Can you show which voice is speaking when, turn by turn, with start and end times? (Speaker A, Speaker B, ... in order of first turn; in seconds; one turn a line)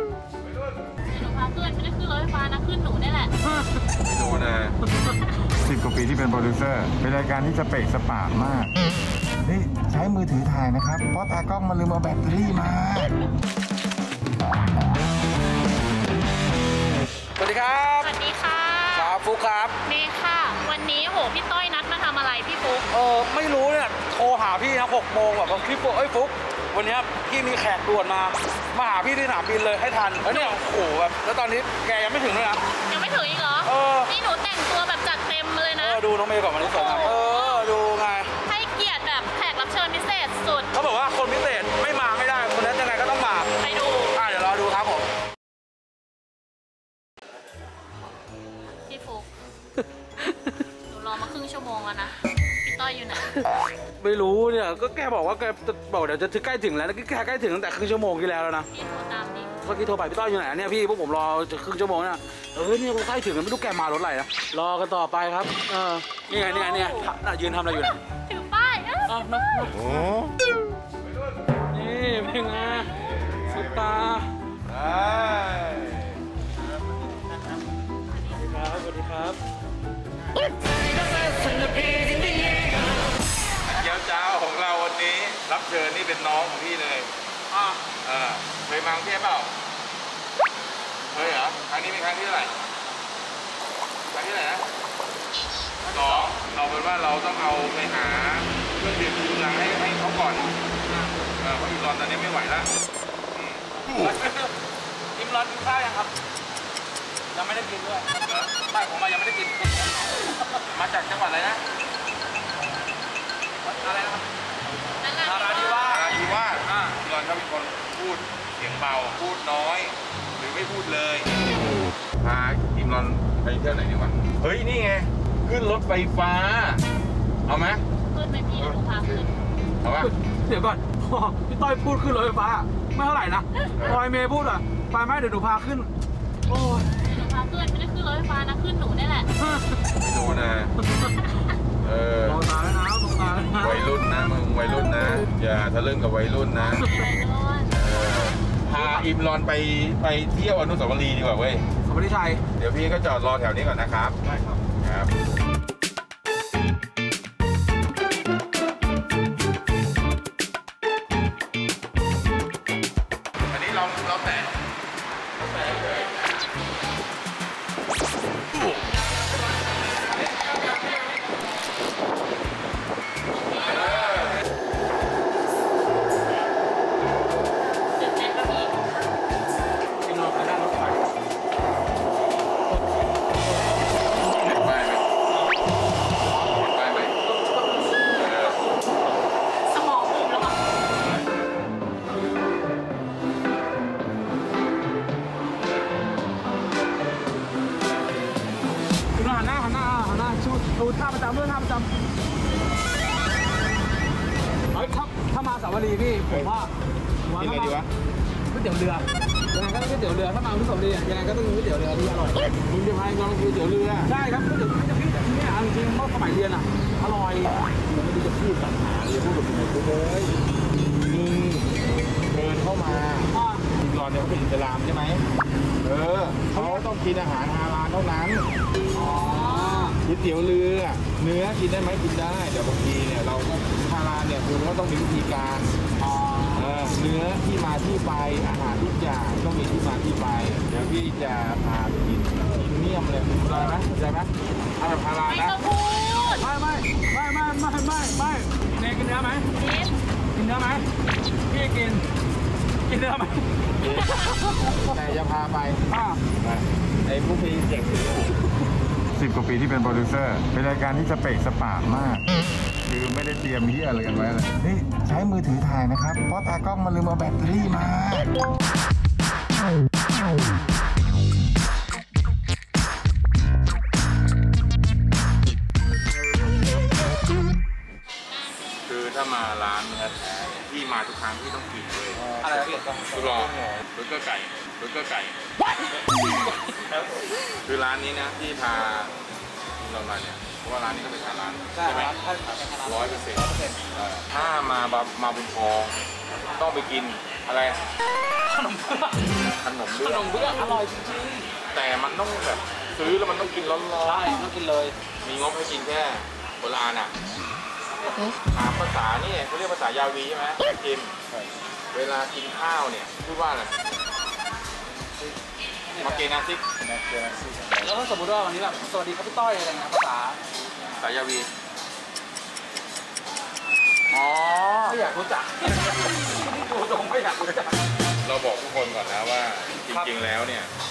Speaker A: 1.1-3.3
Speaker B: 4.0-4.7
Speaker C: 5.6-8.7
Speaker C: 9.4-13.1
Speaker D: 17.4-18.1
Speaker A: 18.0-19.2
Speaker D: 18.9-19.8
Speaker A: 19.8-22.9
Speaker D: 22.9-32.6
Speaker A: 30.3-30.6
Speaker A: 32.9-36.0
Speaker D: 33.6-34.1
Speaker D: 35.8-38.3
Speaker A: 36.6-37.7
Speaker A: 38.4-40.7
Speaker D: 40.7-43.5
Speaker A: 43.6-44.2
Speaker D: 44.1-45.0
Speaker A: 48.9-49.3
Speaker A: 50.9-53.4
Speaker D: 54.0-58.7
Speaker A: 58.7-59.6
Speaker D: 59.6-68.0
Speaker A: 66.3-67.1
Speaker A: 68.3-69.1
Speaker D: 69.1-70.0
Speaker D: 71.7-74.3
Speaker B: 73.2-73.9
Speaker B: 74.7-76.2
Speaker D: 78.3-79.4
Speaker D: 81.6-82.5
Speaker B: 83.7-87.1
Speaker D: 87.5-87.8
Speaker B: 88.0-89.5
Speaker B: 91.1-92.5
Speaker B: 94.2-94.7
Speaker D: 95.8-96.3
Speaker B: 95.9-100.5
Speaker B: 101.4-102.7
Speaker D: 103.8-104.5
Speaker D: 105.2-106.1
Speaker D: 107.3-108.1
Speaker D: 108.7-110.6
Speaker B: 110.7-111.6
Speaker D: 113.6-114.3
Speaker A: 115.0-116.3
Speaker D: 115.2-117.0
Speaker B: 115.7-121.3
Speaker B: 122.2-126.8
Speaker B: 127.5-127.8
Speaker A: 128.1-129.3
Speaker B: 129.8-130.1
Speaker D: 130.0-135.9
Speaker D: 136.5-136.9
Speaker A: 136.9-139.3
Speaker B: 140.0-140.7
Speaker B: 141.8-142.4
Speaker D: 142.2-143.8
Speaker B: 143.6-146.8
Speaker A: 146.6-148.2
Speaker B: 147.8-151.7
Speaker D: 148.8-149.1
Speaker D: 151.8-152.4
Speaker B: 152.6-154.2
Speaker D: 154.3-154.6
Speaker B: 154.8-155.1
Speaker B: 163.5-164.6
Speaker A: 178.0-178.7
Speaker D: 180.0-181.1
Speaker B: 184.4-185.0
Speaker B: 186.6-187.2
Speaker D: 187.2-188.0
Speaker B: 188.1-188.6
Speaker D: 190.1-190.3
Speaker D: 199.2-201.9
Speaker D: 204.7-206.7
Speaker D: 207.2-207.8
Speaker B: 207.4-207.9
Speaker D: 208.5-212.5
Speaker B: 212.7-214.1
Speaker D: 214.0-217.6
Speaker B: 217.9-220.3
Speaker B: 221.1-221.7
Speaker B: 222.3-225.2
Speaker D: 223.3-223.7
Speaker B: 225.8-228.5
Speaker D: 226.5-226.8
Speaker D: 228.9-230.0
Speaker A: 229.2-230.0
Speaker B: 230.0-235.7
Speaker D: 236.0-236.8
Speaker B: 236.5-245.6
Speaker A: 245.2-246.5
Speaker D: 246.4-249.5
Speaker A: 249.5-249.9
Speaker D: 250.3-250.9
Speaker D: 251.5-252.1
Speaker D: 252.9-254.9
Speaker B: 253.8-254.1
Speaker B: 254.9-255.8
Speaker D: 255.9-256.2
Speaker B: 256.4-258.3
Speaker C: 259.2-262.2
Speaker C: 262.9-263.5
Speaker B: 262.9-264.6
Speaker C: 264.4-268.3
Speaker A: 278.1-278.9
Speaker B: 278.9-285.4
Speaker C: 282.2-282.4
Speaker D: 282.4-283.8
Speaker B: 287.7-289.1
Speaker B: 289.8-292.1
Speaker D: 291.7-293.8
Speaker B: 292.8-295.9
Speaker B: 296.6-297.8
Speaker D: 298.4-299.2
Speaker B: 299.6-300.6
Speaker D: 300.0-301.5
Speaker B: 301.7-304.4
Speaker D: 304.0-304.9
Speaker B: 305.2-307.1
Speaker B: 308.5-311.1
Speaker B: 311.9-313.7
Speaker D: 315.9-316.3
Speaker B: 316.0-316.6
Speaker D: 317.8-320.4
Speaker B: 321.0-321.5
Speaker D: 324.1-327.8
Speaker B: 324.4-324.8
Speaker B: 328.2-330.7